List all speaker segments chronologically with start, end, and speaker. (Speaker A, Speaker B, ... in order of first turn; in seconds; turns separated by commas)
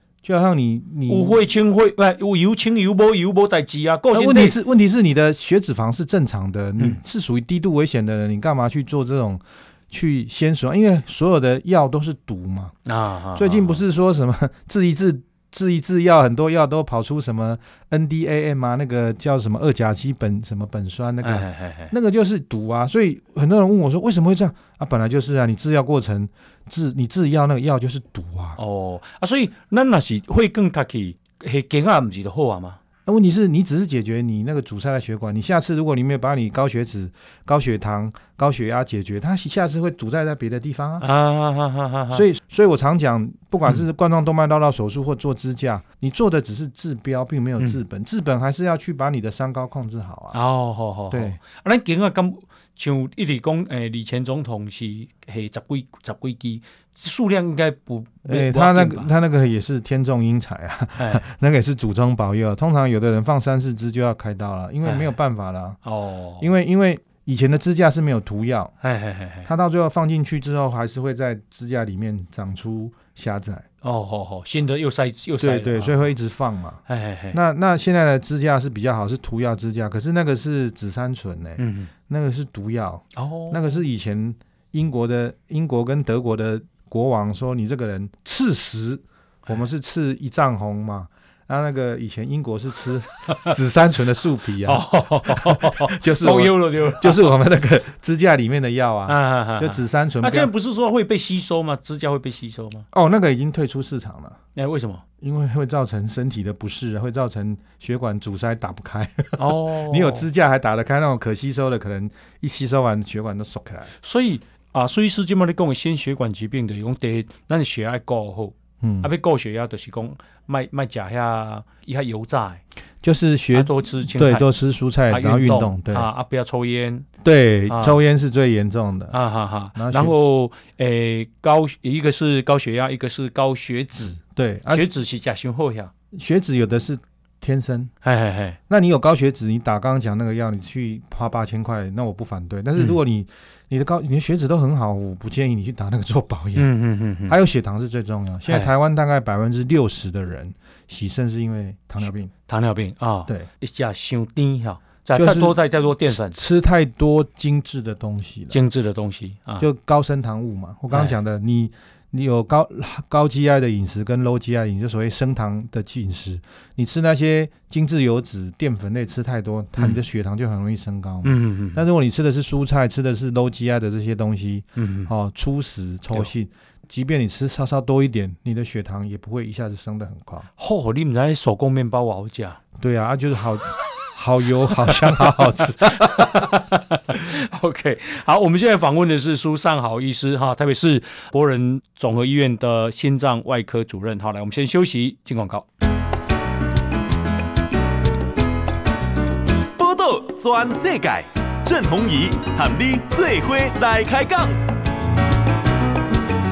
Speaker A: 0.2-1.4, Speaker B: 1.1-4.6, Speaker A: 4.1-12.7, Speaker B: 12.8-13.8, Speaker A: 13.3-28.6, Speaker B: 21.2-21.9, Speaker B: 28.6-32.8, Speaker A: 33.0-41.0, Speaker B: 41.0-42.3, Speaker A: 42.1-50.4, Speaker B: 50.3-59.1, Speaker A: 51.1-51.4, Speaker A: 58.2-65.8, Speaker B: 61.0-61.2, Speaker B: 64.8-65.1, Speaker B: 65.8-66.5, Speaker A: 66.4-68.7, Speaker B: 68.8-69.5, Speaker A: 69.4-73.7, Speaker B: 73.8-76.1, Speaker A: 75.4-100.5, Speaker B: 76.9-77.4, Speaker B: 81.6-81.9, Speaker B: 83.2-83.8, Speaker B: 94.6-97.3, Speaker B: 99.1-102.9, Speaker A: 102.9-104.4, Speaker B: 104.5-105.0, Speaker A: 105.2-113.9, Speaker B: 109.4-110.3, Speaker B: 114.0-122.6, Speaker A: 118.8-119.1, Speaker A: 123.0-126.1, Speaker B: 123.5-124.5, Speaker B: 125.1-127.1, Speaker A: 127.2-129.2, Speaker B: 127.7-128.0, Speaker B: 129.1-135.9, Speaker A: 129.8-130.1, Speaker A: 134.1-134.8, Speaker A: 136.1-137.9, Speaker B: 138.0-138.6, Speaker A: 138.7-146.7, Speaker B: 146.5-147.4, Speaker A: 147.3-152.3, Speaker B: 152.5-156.4, Speaker A: 155.1-158.6, Speaker B: 158.5-159.7, Speaker A: 159.6-180.5, Speaker B: 160.9-161.2, Speaker B: 171.2-171.8, Speaker B: 174.8-175.1, Speaker B: 180.6-182.6, Speaker A: 182.8-186.5, Speaker B: 184.6-195.7, Speaker C: 199.8-204.6